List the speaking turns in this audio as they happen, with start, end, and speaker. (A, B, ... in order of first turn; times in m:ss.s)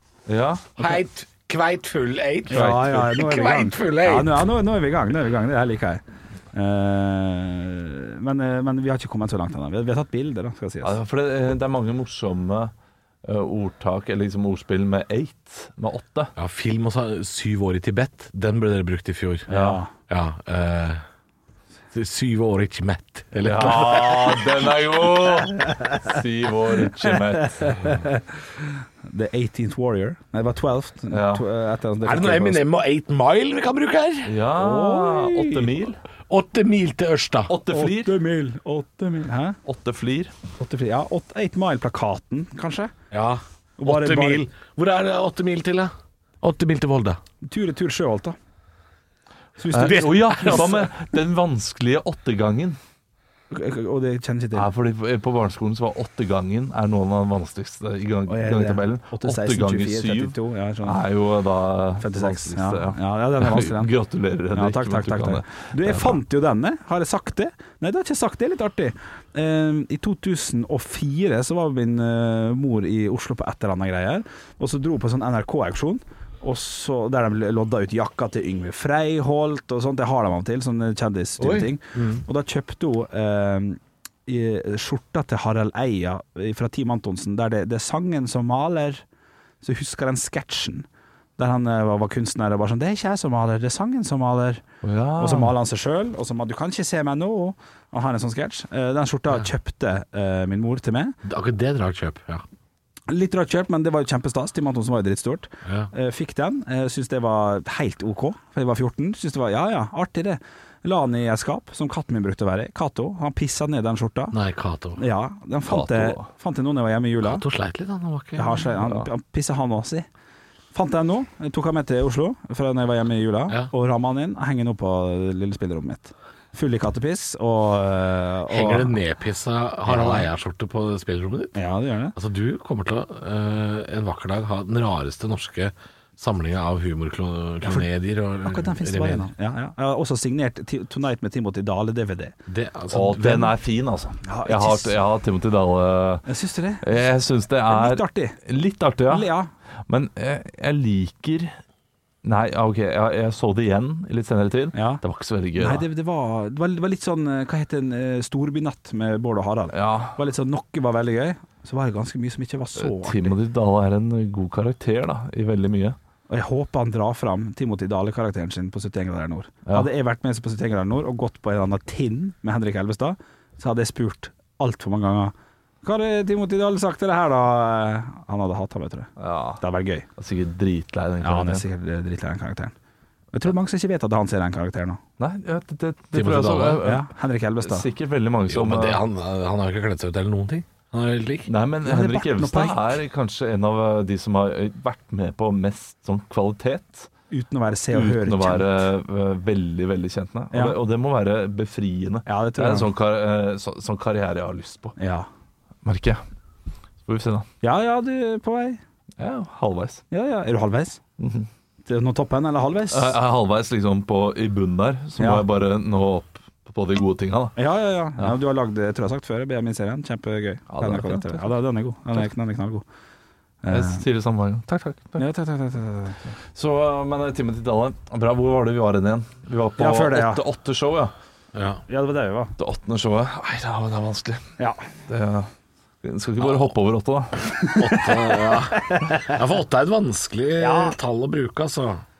0:00.3-0:00.8 A
0:00.8-0:04.4 B
0:02.5-0:10.9 C
0:02.5-0:03.0 A
0:10.8-0:12.7 A
0:13.2-0:16.3 A
0:16.4-0:21.0 B
0:19.5-0:19.9 C
0:19.5-0:19.8 A
0:21.9-0:24.6 B
0:23.4-0:27.7 A
0:27.1-0:28.2 C
0:29.1-0:32.6 C
0:31.1-0:31.4 A
0:32.0-0:34.3 B
0:34.2-0:36.0 A
0:34.5-0:35.8 C
0:36.3-0:37.5 B
0:37.5-0:38.1 A
0:37.7-0:39.6 C
0:39.6-0:40.3 A
0:40.6-0:42.9 C
0:43.1-0:47.2 B
0:43.8-0:44.4 C
0:47.4-0:48.4 C
0:49.6-0:50.8 C
0:49.7-0:52.8 A
0:49.8-0:50.8 B
0:53.5-0:54.7 C
0:54.5-1:06.2 A
0:58.3-1:01.0 C
1:02.0-1:03.9 C
1:04.5-1:29.0 C
1:21.4-1:22.2 B
1:29.6-1:30.8 C
1:31.4-1:34.6 C
1:34.8-1:35.5 A
1:35.2-1:41.2 C
1:41.2-1:42.4 B
1:43.1-1:54.4 C
1:45.6-1:45.9 B
1:54.3-1:55.0 B
1:55.0-1:57.4 C
1:55.6-1:56.3 A
1:57.2-1:58.7 B
1:58.4-2:00.1 C
2:00.7-2:08.9 C
2:08.5-2:11.6 B
2:09.9-2:10.3 C
2:11.6-2:12.2 C
2:12.2-2:19.3 B
2:18.4-2:22.3 C
2:22.5-2:23.5 B
2:22.9-2:26.3 A
2:24.2-2:24.9 C
2:26.2-2:26.8 C
2:26.8-2:29.3 A
2:27.7-2:28.4 C
2:29.1-2:29.5 C
2:29.9-2:31.6 A
2:32.2-2:35.8 A
2:34.7-2:35.0 C
2:35.6-2:43.3 C
2:39.7-2:40.2 A
2:42.8-2:46.0 A
2:46.3-3:00.1 C
2:59.2-2:59.6 A
3:00.2-3:01.6 A
3:01.2-3:02.7 C
3:03.3-3:05.0 C
3:05.2-3:07.1 A
3:06.1-3:06.8 B
3:06.8-3:07.8 C
3:07.6-3:09.0 A
3:08.5-3:11.5 B
3:11.5-3:17.1 A
3:11.8-3:12.9 C
3:17.3-3:18.8 C
3:17.9-3:25.0 A
3:20.5-3:20.8 C
3:22.3-3:22.9 C
3:25.0-3:25.3 C
3:25.8-3:26.2 A
3:27.0-3:27.5 A
3:27.6-3:28.8 C
3:29.2-3:30.0 A
3:30.1-3:31.0 C
3:31.2-3:31.5 A
3:31.8-3:33.2 C
3:32.9-3:37.6 A
3:35.2-3:35.4 C
3:37.6-3:42.8 C
3:40.7-3:41.5 A
3:43.6-3:44.0 C
3:43.7-3:45.2 A
3:45.2-3:46.3 C
3:46.5-3:51.1 A
3:49.8-3:50.4 C
3:51.5-3:51.8 B
3:51.9-3:52.5 C
3:52.6-3:54.6 A
3:55.1-3:55.5 A
3:56.0-3:57.4 A
3:56.4-3:56.7 B
3:57.6-3:59.3 C
3:57.8-4:02.0 B
4:00.6-4:01.0 C